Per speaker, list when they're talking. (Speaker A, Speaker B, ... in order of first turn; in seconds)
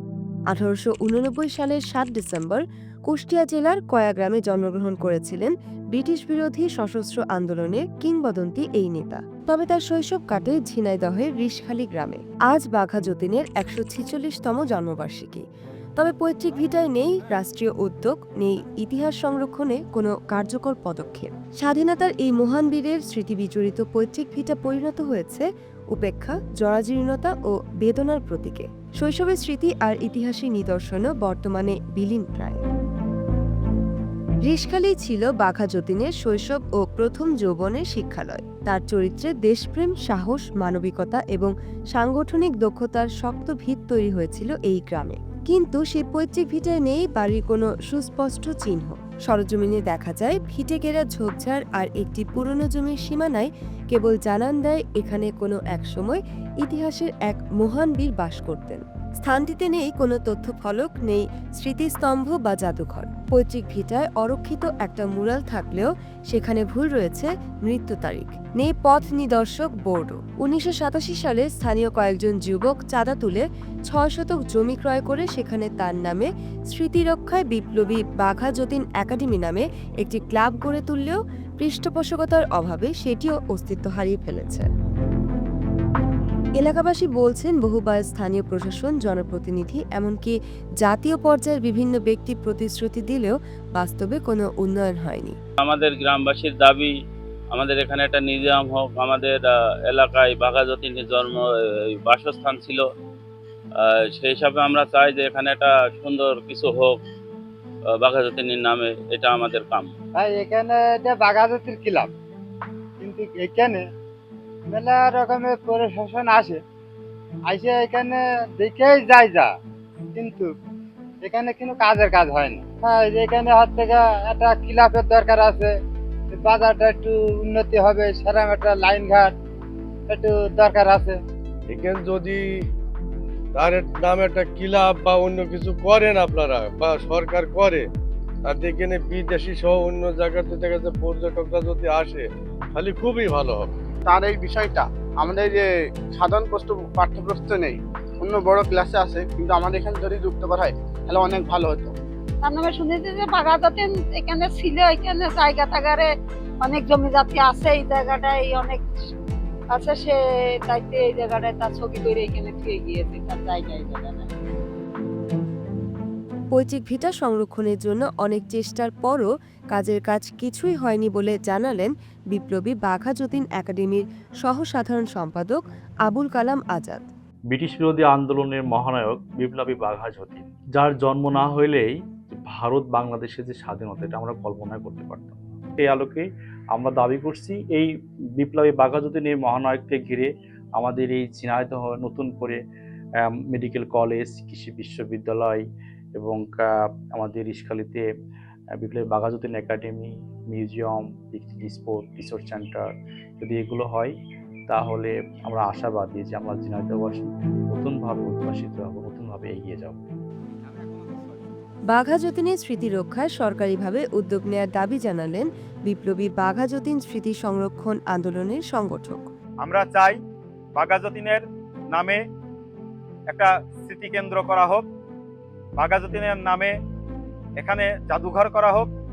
Speaker A: 0.5-15.4, 16.0-32.6, 34.4-84.7, 86.6-95.3, 166.5-177.1, 211.9-219.3
Speaker B: 95.6-96.9, 97.5-102.8, 103.8-107.0, 108.0-109.9
Speaker C: 110.1-112.1, 113.0-113.9, 114.7-116.6, 117.5-119.5, 120.1-120.5, 121.2-125.8, 126.3-129.3, 130.1-131.2
Speaker D: 131.7-132.4, 133.5-137.8, 138.4-143.7
Speaker E: 144.1-151.9
Speaker F: 152.4-156.1, 156.6-158.8, 159.7-164.3
Speaker G: 177.5-192.6, 193.2-195.6, 196.2-198.1, 198.8-202.9, 203.4-204.1, 204.7-210.0
Speaker H: 219.6-220.2, 220.7-222.2, 223.3-224.8, 225.8-226.7, 227.6-228.9